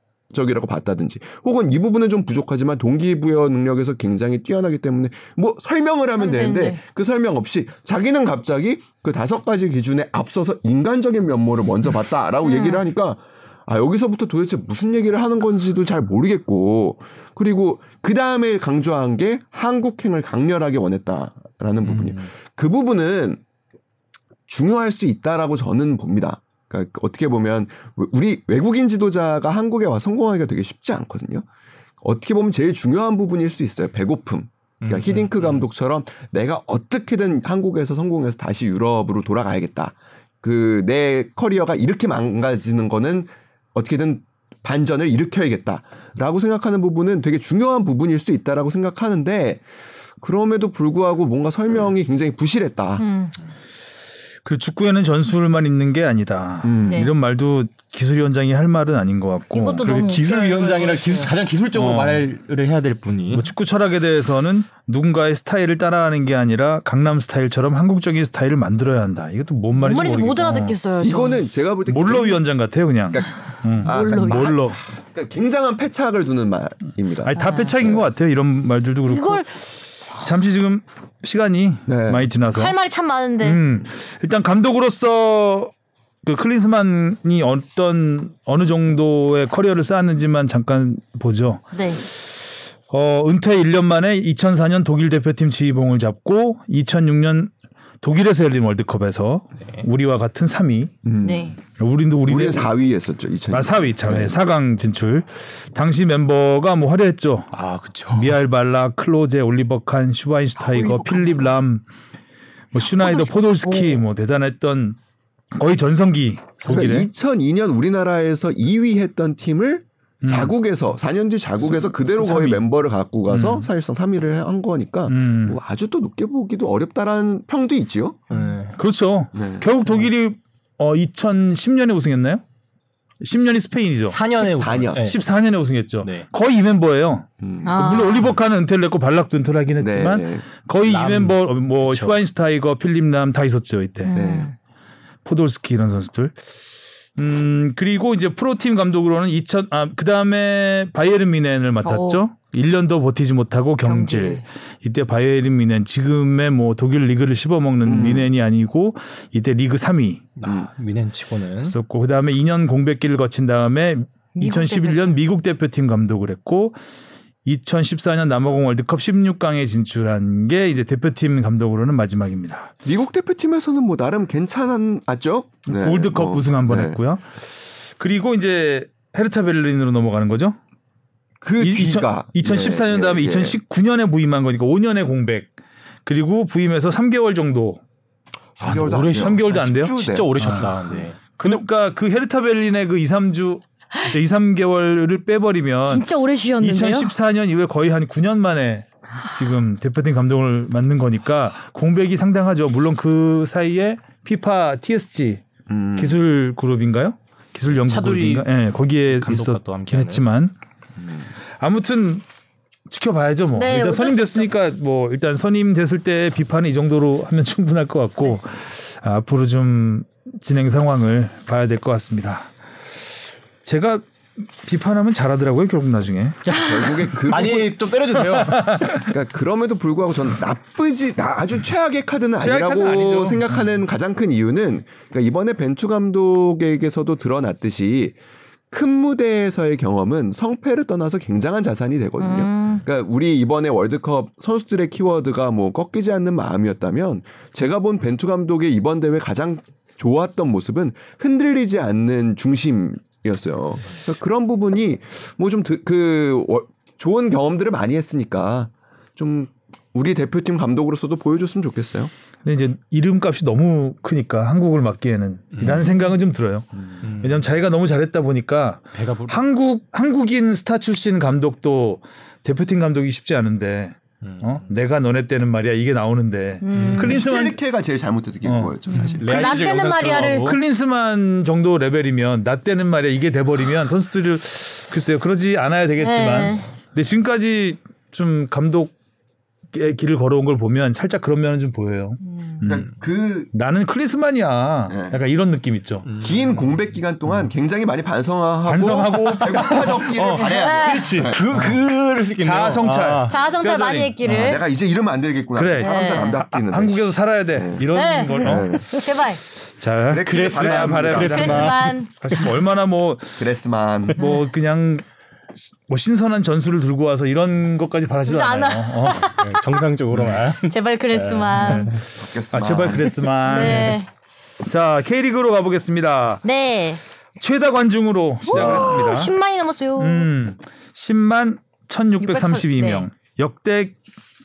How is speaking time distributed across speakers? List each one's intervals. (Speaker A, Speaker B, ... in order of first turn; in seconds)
Speaker A: 0.3-23.4, 24.5-31.4, 32.0-49.6, 50.2-53.0, 56.6-57.0, 71.0-72.4, 73.1-78.0, 81.9-82.3, 101.0-101.5, 102.2-104.4, 116.6-128.2, 129.3-129.7, 134.4-135.1, 137.4-137.8, 139.8-140.4, 144.1-144.5, 157.8-158.3, 160.4-160.7, 172.8-177.0, 181.4-183.6, 188.6-190.7, 205.7-206.2, 211.0-211.3, 226.5-227.8, 228.9-238.2, 238.7-262.1, 276.9-279.5, 292.6-293.5, 294.9-295.2, 296.2-301.5, 304.2-309.0, 310.1-311.7, 313.4-314.2, 322.1-323.3, 328.5-328.8
Speaker B: 6.2-6.8, 12.4-12.8, 53.0-53.3, 56.9-57.1, 59.5-61.3, 69.8-71.4, 73.8-74.6, 77.4-77.7, 79.1-79.6, 82.5-83.6, 91.7-92.0, 101.2-101.6, 113.0-114.0, 137.6-138.3, 144.0-144.5, 151.8-152.2, 153.8-154.4, 164.3-165.2, 195.8-197.1, 213.5-214.5, 242.2-242.8, 276.6-277.2, 278.9-280.5, 286.0-286.6, 292.2-292.6, 300.4-301.2, 303.3-304.6, 305.8-306.4, 307.9-309.4, 311.2-312.4, 318.2-319.8, 320.7-321.9, 323.4-324.1, 326.4-327.0, 328.5-330.3, 332.2-333.1
Speaker C: 21.9-22.2, 34.8-35.6, 59.8-63.5, 107.5-108.4, 128.3-128.7, 134.1-135.2, 140.8-142.2, 160.4-161.8, 188.6-191.6, 207.8-208.5, 209.1-210.2, 226.4-229.0, 265.6-265.9, 267.0-267.4, 268.9-269.4, 276.7-277.1, 279.0-280.6, 296.1-296.5, 301.2-303.4, 310.2-312.4, 319.4-322.0, 323.6-323.9
Speaker D: 54.4-60.3, 61.7-62.3, 63.3-70.8, 71.9-74.8, 77.2-79.5, 80.2-82.8, 83.4-85.7, 86.2-91.6, 92.9-100.9, 101.8-102.7, 103.5-107.5, 108.1-111.8, 112.7-115.0, 115.5-117.1, 120.2-120.5, 121.7-122.6, 123.3-123.7, 125.1-125.6, 128.7-132.4, 133.2-134.2, 135.0-144.2, 145.2-146.3, 147.2-160.3, 161.6-166.8, 167.4-172.7, 175.7-177.2, 178.0-180.6, 181.6-185.5, 186.0-187.8, 189.0-190.7, 191.4-196.1, 196.6-205.4, 205.9-210.5, 211.6-212.2, 212.9-222.5, 223.6-226.4, 228.3-229.0, 232.4-233.5, 262.4-277.6, 278.4-278.7, 279.3-279.6, 280.2-288.9, 289.7-292.9, 293.5-296.1, 298.6-301.8, 302.4-304.6, 305.5-308.8, 309.8-313.4, 314.2-315.0, 315.8-319.3, 320.1-320.4, 322.5-324.0, 324.6-326.4, 327.4-329.3, 330.0-334.0